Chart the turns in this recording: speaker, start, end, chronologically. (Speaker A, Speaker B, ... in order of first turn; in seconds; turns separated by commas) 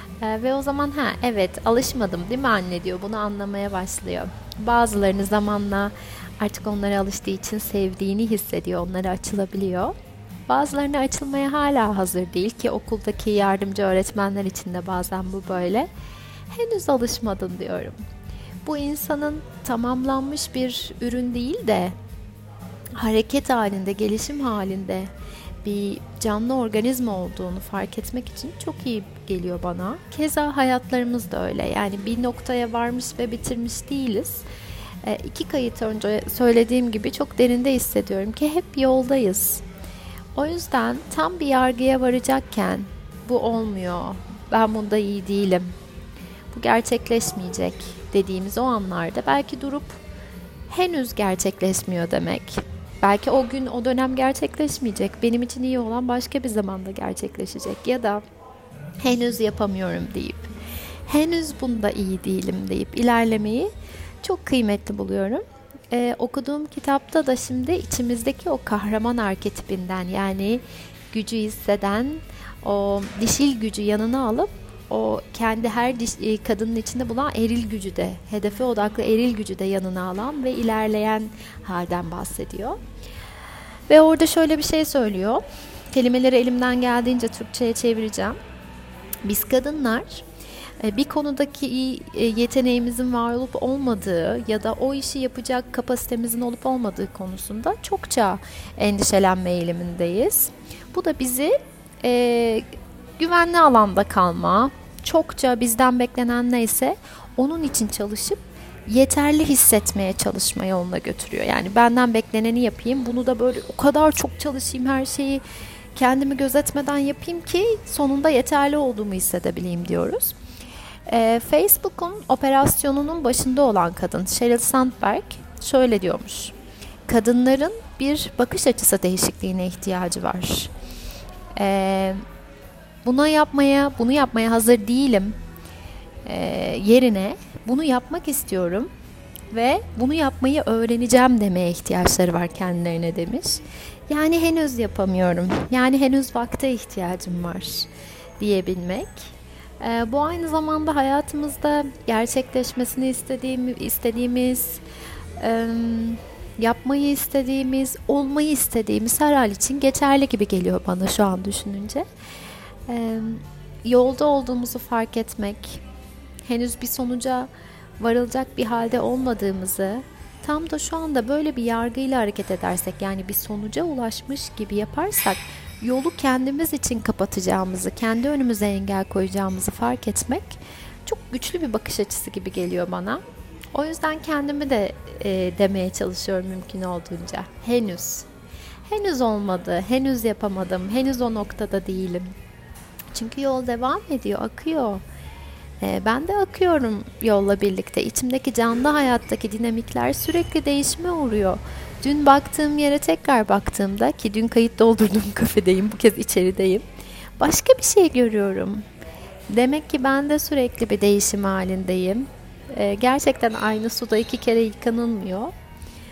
Speaker A: 0.2-9.9, Speaker A: 10.5-15.9, Speaker A: 16.5-18.0, Speaker A: 18.6-21.9, Speaker A: 23.0-25.1, Speaker A: 25.6-34.5, Speaker A: 35.0-39.6, Speaker A: 40.3-45.7, Speaker A: 46.5-50.0, Speaker A: 50.7-58.2, Speaker A: 59.0-60.5, Speaker A: 61.1-63.7, Speaker A: 64.2-82.8, Speaker A: 83.9-88.4, Speaker A: 89.2-90.2, Speaker A: 90.8-115.4, Speaker A: 116.0-120.3, Speaker A: 121.1-126.5, Speaker A: 127.1-130.7, Speaker A: 131.6-132.2, Speaker A: 133.0-135.3, Speaker A: 136.2-138.9, Speaker A: 139.5-147.9, Speaker A: 148.4-149.3, Speaker A: 149.8-154.8, Speaker A: 155.4-162.1, Speaker A: 162.9-165.8, Speaker A: 166.4-167.5, Speaker A: 168.0-183.2, Speaker A: 183.7-188.3, Speaker A: 188.9-192.3, Speaker A: 193.1-195.0, Speaker A: 195.8-206.8, Speaker A: 207.4-208.8, Speaker A: 209.5-215.5